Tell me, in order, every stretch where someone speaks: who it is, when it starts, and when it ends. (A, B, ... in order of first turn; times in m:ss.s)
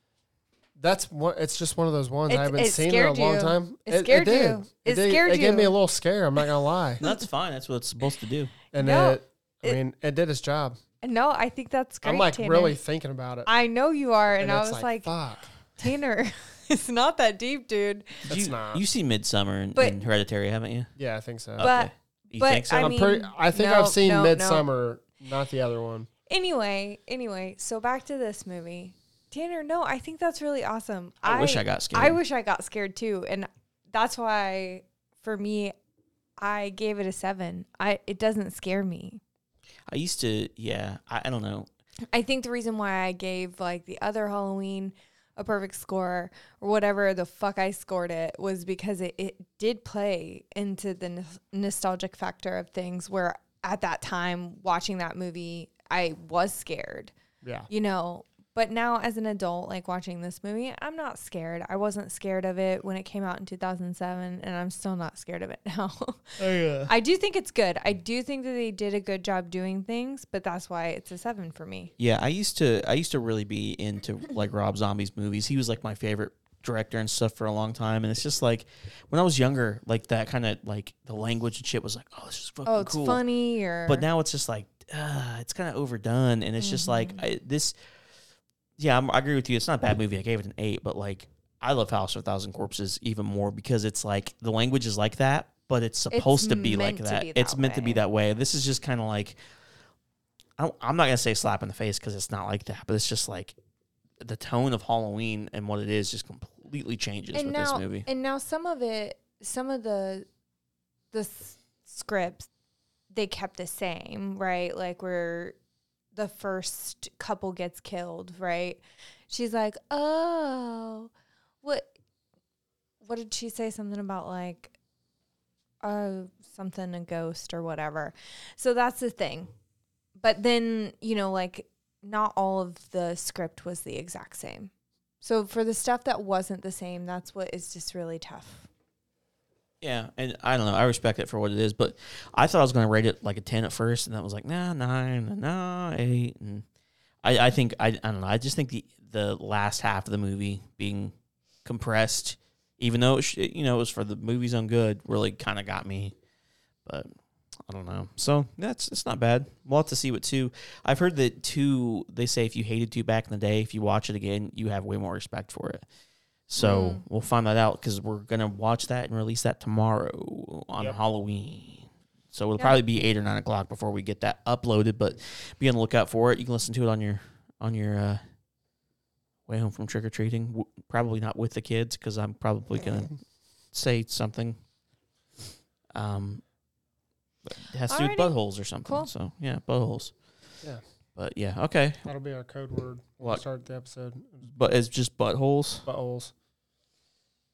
0:00.8-0:07.0 A
0:02.3-0:05.8 B
0:07.0-0:08.6 C
0:08.7-0:10.8 A
0:08.8-0:09.8 B
0:11.0-0:12.8 B
0:12.0-0:13.5 A
0:13.5-0:15.1 B
0:14.4-0:15.5 A
0:15.7-0:18.3 B
0:18.3-0:20.9 C
0:18.3-0:18.8 A
0:21.0-0:21.7 A
0:21.6-0:23.0 C
0:21.6-0:24.6 B
0:22.7-0:26.1 A
0:26.3-0:35.8 B
0:31.2-0:32.2 C
0:36.4-0:39.2 B
0:39.9-0:41.7 C
0:42.1-0:57.1 B
0:57.4-0:57.7 A
0:57.7-1:11.9 B
1:06.4-1:06.9 C
1:12.0-1:23.2 C
1:22.7-1:24.1 B
1:23.9-1:27.8 C
1:26.6-1:27.2 B
1:28.8-1:39.4 C
1:36.1-1:38.0 B
1:40.6-1:43.6 C
1:44.2-1:48.1 C
1:47.3-1:50.3 B
1:51.1-1:52.5 B
1:53.1-1:55.6 B
1:56.1-2:01.1 B
2:01.6-2:01.9 B
2:03.0-2:04.7 B
2:05.8-2:09.5 B
2:10.2-2:14.7 B
2:15.2-2:18.7 B
2:19.8-2:26.6 C
2:27.2-2:31.1 C
2:31.6-2:36.2 C
2:36.8-2:37.1 C
2:37.7-2:45.8 C
2:46.5-2:58.2 C
2:46.6-2:47.0 B
2:59.5-3:04.6 C
3:05.9-3:06.4 C
3:07.5-3:10.4 C
3:07.9-3:09.1 B
3:11.2-3:12.1 C
3:12.0-3:14.5 A
3:14.5-3:15.9 C
3:15.8-3:16.3 A